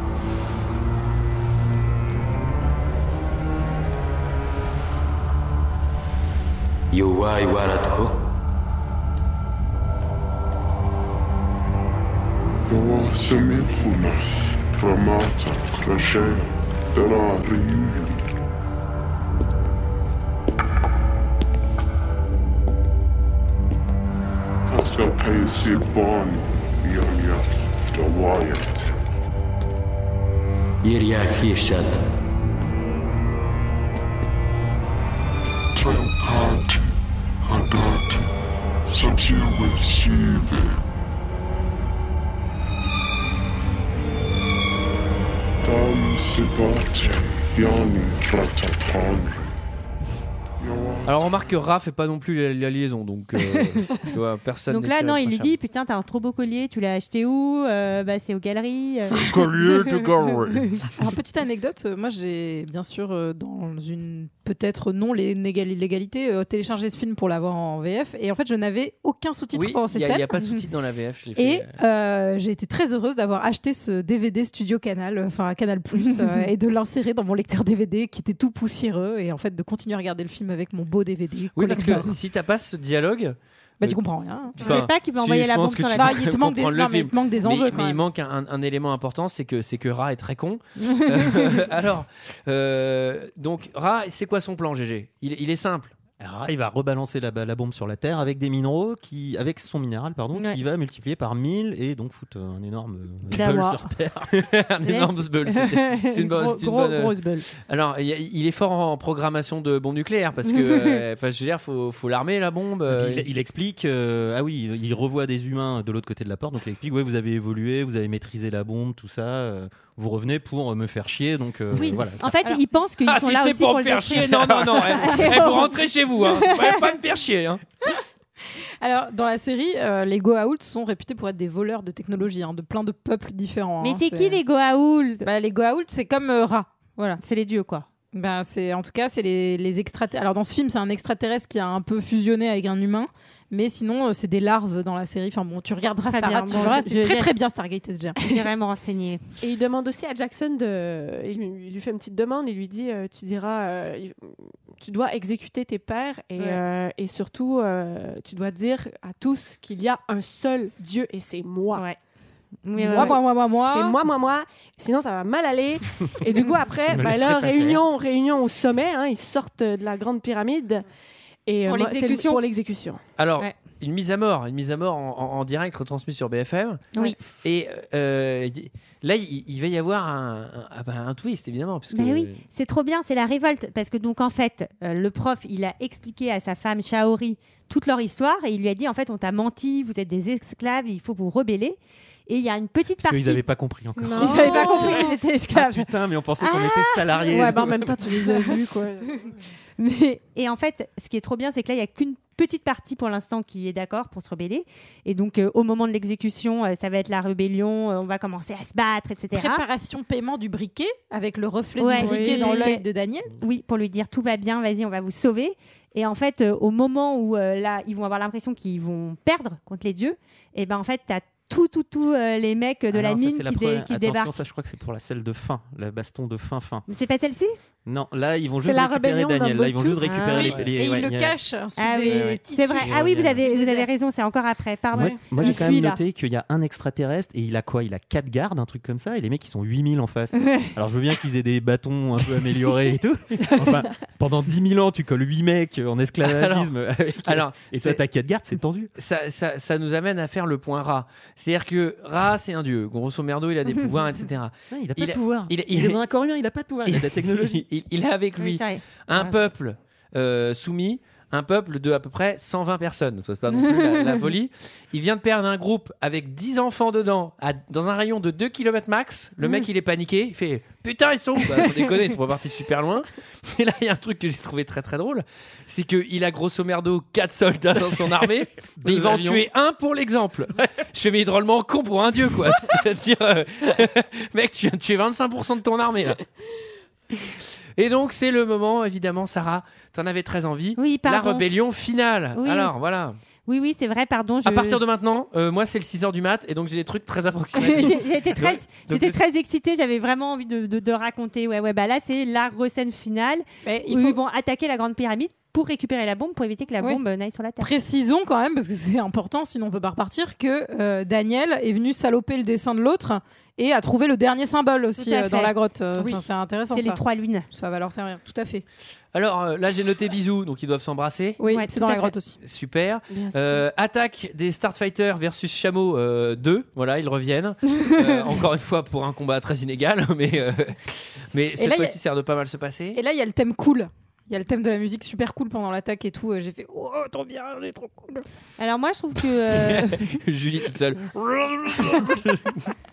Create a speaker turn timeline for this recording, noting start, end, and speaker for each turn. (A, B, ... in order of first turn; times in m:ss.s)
0:06.9-0:08.1 A
0:12.7-0:18.3 B
0:24.7-0:29.0 B
0:30.8-0:32.0 A
0:35.8-0:36.9 B
0:37.4-0:38.3 B
0:38.9-0:40.8 B
0:45.6-0:49.5 B
0:50.6-0:51.3 B
0:51.1-0:55.5 C
0:54.7-1:00.9 D
0:59.2-0:59.5 E
1:01.0-1:10.3 E
1:09.5-1:11.8 C
1:11.4-1:22.2 E
1:21.6-1:24.0 C
1:23.8-1:24.8 E
1:24.6-1:35.9 C
1:24.6-1:26.3 D
1:25.9-1:28.1 E
1:36.2-1:44.5 F
1:43.3-1:43.9 D
1:44.4-1:53.3 C
1:44.8-1:47.5 D
1:50.5-1:51.0 D
1:52.9-2:02.4 F
2:01.7-2:06.4 D
2:03.0-2:07.6 C
2:08.8-2:14.4 E
2:13.8-2:15.3 D
2:15.2-2:17.2 E
2:17.2-2:17.9 D
2:18.1-2:28.2 E
2:26.0-2:27.3 D
2:28.2-2:29.2 D
2:29.4-2:41.8 G
2:42.6-2:43.2 D
2:42.8-2:44.0 E
2:42.9-2:50.8 G
2:46.9-2:47.8 F
2:51.5-2:53.0 G
2:51.7-2:52.4 D
2:53.2-3:02.4 C
3:01.9-3:13.4 D
3:13.0-3:18.2 F
3:14.0-3:15.2 G
3:14.1-3:15.9 D
3:16.4-3:18.5 D
3:17.3-3:19.3 G
3:19.8-3:29.6 D
3:29.3-3:33.3 E
3:31.8-3:32.8 D
3:32.0-3:32.7 G
3:33.4-3:44.4 D
3:42.9-3:46.9 F
3:46.9-3:47.6 D
3:47.9-3:51.4 F
3:48.6-3:50.2 G
3:50.0-3:50.6 D
3:50.2-3:53.9 E
3:50.4-3:50.7 C
3:51.8-3:56.0 D
3:52.0-3:53.4 F
3:54.9-4:08.9 F
3:54.9-3:55.3 G
4:06.2-4:06.7 C
4:07.2-4:08.0 C
4:09.0-4:16.0 C
4:14.7-4:17.6 F
4:16.9-4:46.2 C
4:18.4-4:19.4 D
4:38.8-4:39.5 F
4:47.8-4:53.2 C
4:50.8-4:51.5 D
4:52.4-4:52.7 D
4:53.5-4:54.8 D
4:54.4-4:59.2 C
4:57.6-5:07.7 D
5:03.6-5:04.2 E
5:07.6-5:18.6 E
5:15.0-5:17.5 D
5:19.1-5:21.4 C
5:21.4-5:22.4 E
5:21.5-5:22.2 D
5:22.4-5:33.0 C
5:23.1-5:23.6 G
5:31.6-5:32.0 E
5:32.9-5:38.2 E
5:38.6-5:40.2 D
5:39.6-5:42.7 C